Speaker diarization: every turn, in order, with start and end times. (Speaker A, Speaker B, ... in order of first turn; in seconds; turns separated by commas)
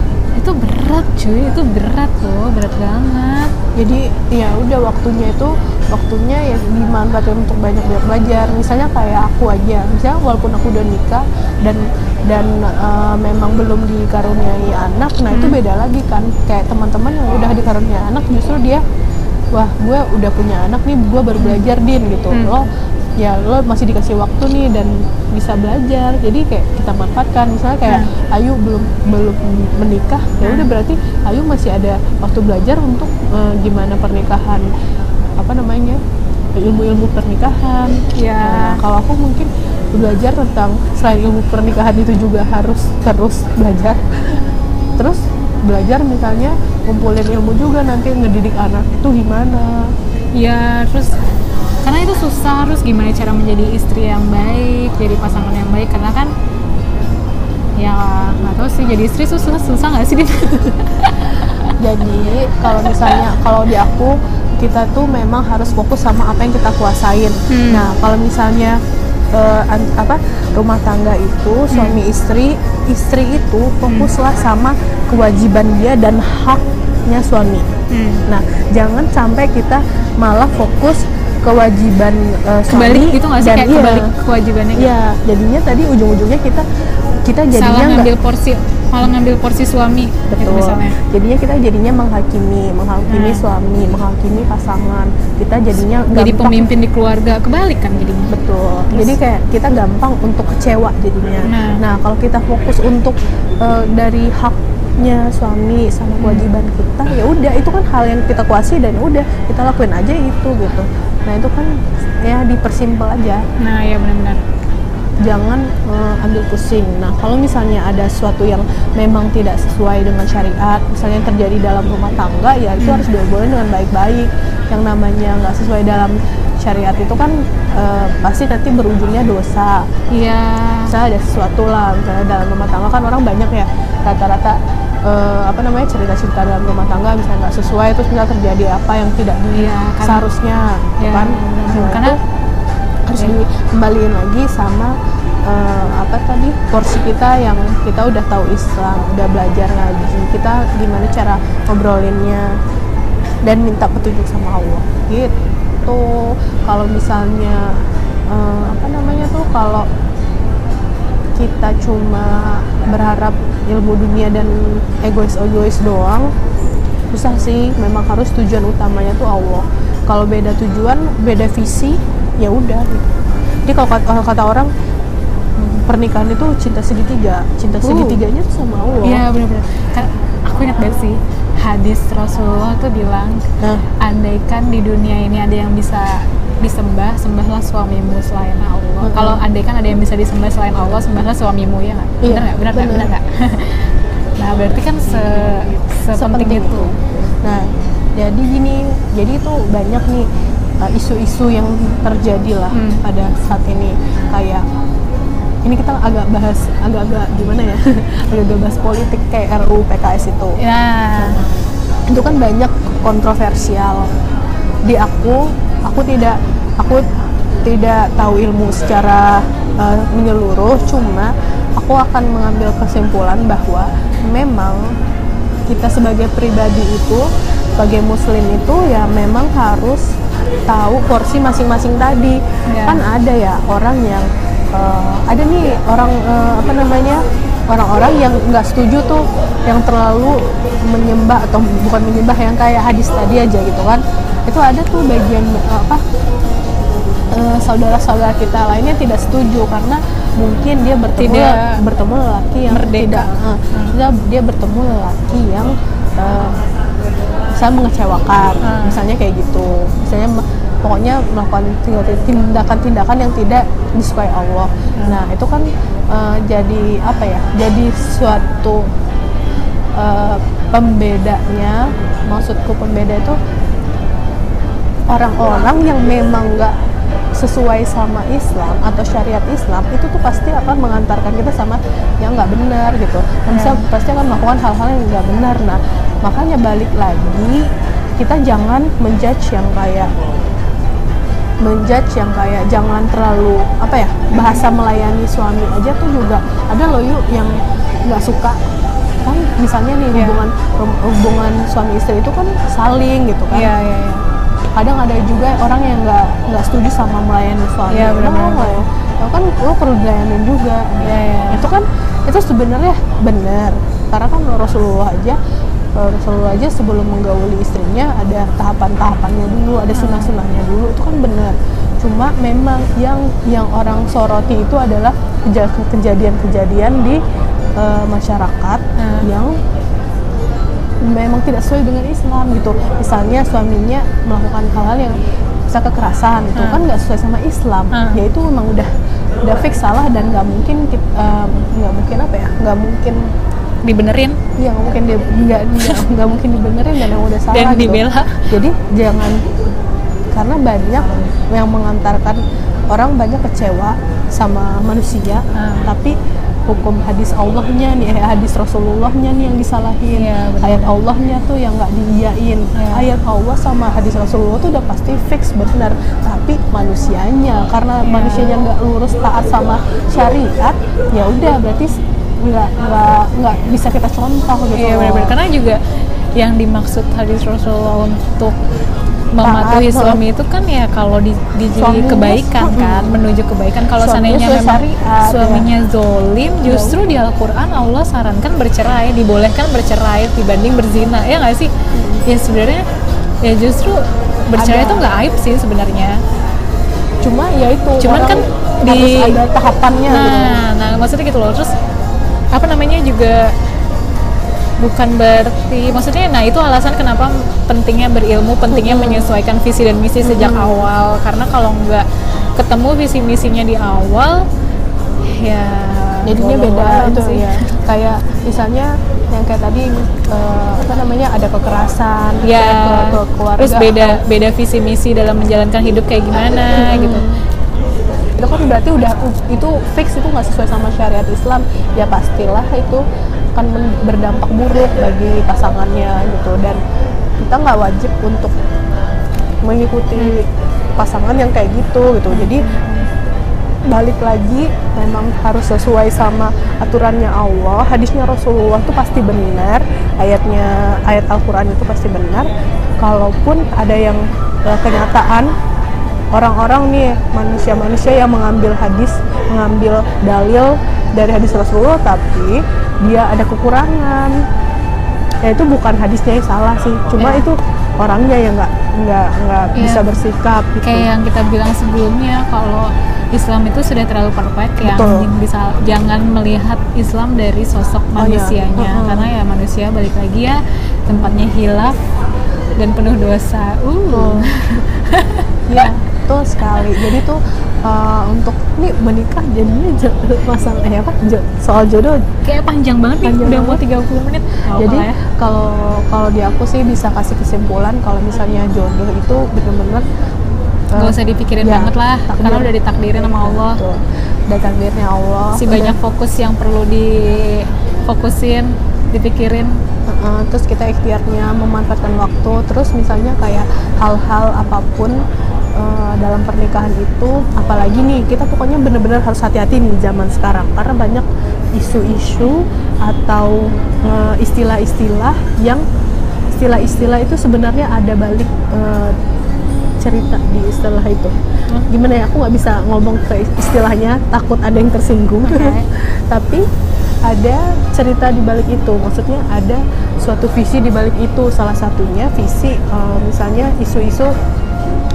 Speaker A: 0.4-3.5, Speaker B: 3.8-18.8, Speaker A: 15.3-15.6, Speaker B: 19.5-34.7, Speaker A: 21.4-21.6, Speaker A: 22.3-22.6, Speaker A: 30.4-30.7, Speaker B: 35.4-36.0, Speaker B: 36.5-44.4, Speaker A: 38.1-38.8, Speaker B: 45.0-49.9, Speaker A: 50.3-51.1, Speaker A: 51.8-56.3, Speaker A: 57.8-61.7, Speaker B: 61.8-68.8, Speaker A: 62.7-63.2, Speaker A: 67.5-67.9, Speaker B: 69.3-77.7, Speaker A: 71.7-72.0, Speaker A: 73.8-74.1, Speaker A: 77.9-78.2, Speaker B: 78.3-84.1, Speaker A: 82.7-84.9, Speaker B: 84.8-86.6, Speaker B: 87.2-88.1, Speaker A: 87.5-91.0, Speaker B: 90.3-96.7, Speaker A: 93.1-93.4, Speaker A: 96.1-98.3, Speaker B: 98.3-113.4, Speaker A: 98.9-99.1, Speaker A: 101.4-101.8, Speaker A: 106.2-106.5, Speaker A: 113.6-114.4, Speaker B: 115.2-129.9, Speaker A: 122.8-123.0, Speaker A: 130.1-130.9, Speaker B: 130.9-142.2, Speaker A: 139.5-140.2, Speaker A: 141.0-142.2, Speaker B: 143.1-152.6, Speaker B: 153.4-159.9, Speaker B: 161.3-166.3, Speaker B: 167.1-173.0, Speaker B: 173.7-174.7, Speaker B: 175.6-179.2, Speaker A: 177.8-178.2, Speaker A: 179.0-183.4, Speaker B: 183.6-183.8, Speaker A: 184.0-196.9, Speaker B: 189.0-189.4, Speaker B: 192.2-193.1, Speaker B: 196.2-200.3, Speaker B: 200.8-204.6, Speaker A: 202.7-203.0, Speaker B: 205.6-210.6, Speaker A: 210.6-211.4, Speaker B: 212.1-214.1, Speaker B: 214.8-217.1, Speaker B: 217.6-224.9, Speaker B: 225.7-227.3, Speaker B: 227.8-230.0, Speaker B: 230.7-246.0, Speaker A: 232.7-233.0, Speaker B: 247.3-256.6, Speaker A: 251.2-251.8, Speaker A: 252.7-253.9, Speaker B: 257.6-268.9, Speaker A: 258.6-259.0, Speaker B: 269.9-273.4, Speaker B: 275.1-276.7, Speaker B: 277.3-290.1, Speaker A: 283.5-283.8, Speaker B: 291.6-298.6, Speaker B: 299.2-303.7, Speaker A: 300.1-300.4, Speaker A: 303.5-304.2, Speaker B: 304.8-315.4, Speaker A: 307.9-308.8, Speaker A: 311.0-311.7, Speaker B: 315.9-327.2, Speaker A: 319.9-320.3, Speaker B: 327.8-329.6, Speaker A: 329.0-329.3, Speaker B: 331.0-338.9, Speaker A: 336.6-336.8, Speaker A: 337.9-338.2, Speaker B: 339.4-343.2, Speaker A: 343.8-344.4, Speaker B: 344.6-349.4, Speaker A: 347.5-348.5, Speaker B: 350.3-375.4, Speaker A: 355.5-355.9, Speaker A: 360.1-361.0, Speaker A: 362.7-363.1, Speaker A: 368.0-368.6, Speaker A: 374.7-375.8, Speaker A: 376.4-378.6, Speaker A: 379.3-391.7, Speaker B: 379.4-380.2, Speaker B: 381.8-383.2, Speaker B: 384.0-385.7, Speaker B: 386.6-387.0, Speaker B: 391.9-392.2, Speaker A: 392.2-392.8, Speaker A: 393.4-396.2, Speaker B: 394.5-395.1, Speaker B: 397.2-400.6, Speaker A: 398.0-399.4, Speaker A: 400.1-401.7, Speaker A: 402.5-403.5, Speaker A: 404.8-414.4, Speaker B: 408.7-409.3, Speaker B: 410.2-410.9, Speaker A: 415.3-417.6, Speaker B: 416.2-424.2, Speaker A: 422.4-427.3, Speaker B: 426.7-427.4, Speaker B: 428.4-436.8, Speaker B: 437.4-438.5, Speaker B: 439.6-442.7, Speaker A: 440.2-440.4, Speaker A: 442.3-443.1, Speaker B: 443.9-452.5, Speaker B: 453.0-455.5, Speaker B: 456.3-464.4, Speaker B: 465.4-471.1, Speaker A: 467.2-467.4, Speaker A: 469.7-470.1, Speaker A: 470.8-482.0, Speaker B: 474.8-475.3, Speaker B: 478.2-479.3, Speaker B: 481.1-481.4, Speaker A: 482.8-485.9, Speaker B: 484.1-484.8, Speaker B: 485.7-492.2, Speaker A: 492.4-495.2, Speaker B: 493.2-493.8, Speaker B: 494.8-500.1, Speaker B: 500.9-506.0, Speaker A: 500.9-503.8, Speaker A: 505.5-509.8, Speaker B: 510.1-515.2, Speaker B: 515.7-525.8, Speaker B: 526.5-529.2, Speaker B: 530.0-531.4, Speaker B: 531.9-536.6, Speaker A: 535.4-535.9, Speaker B: 537.2-544.3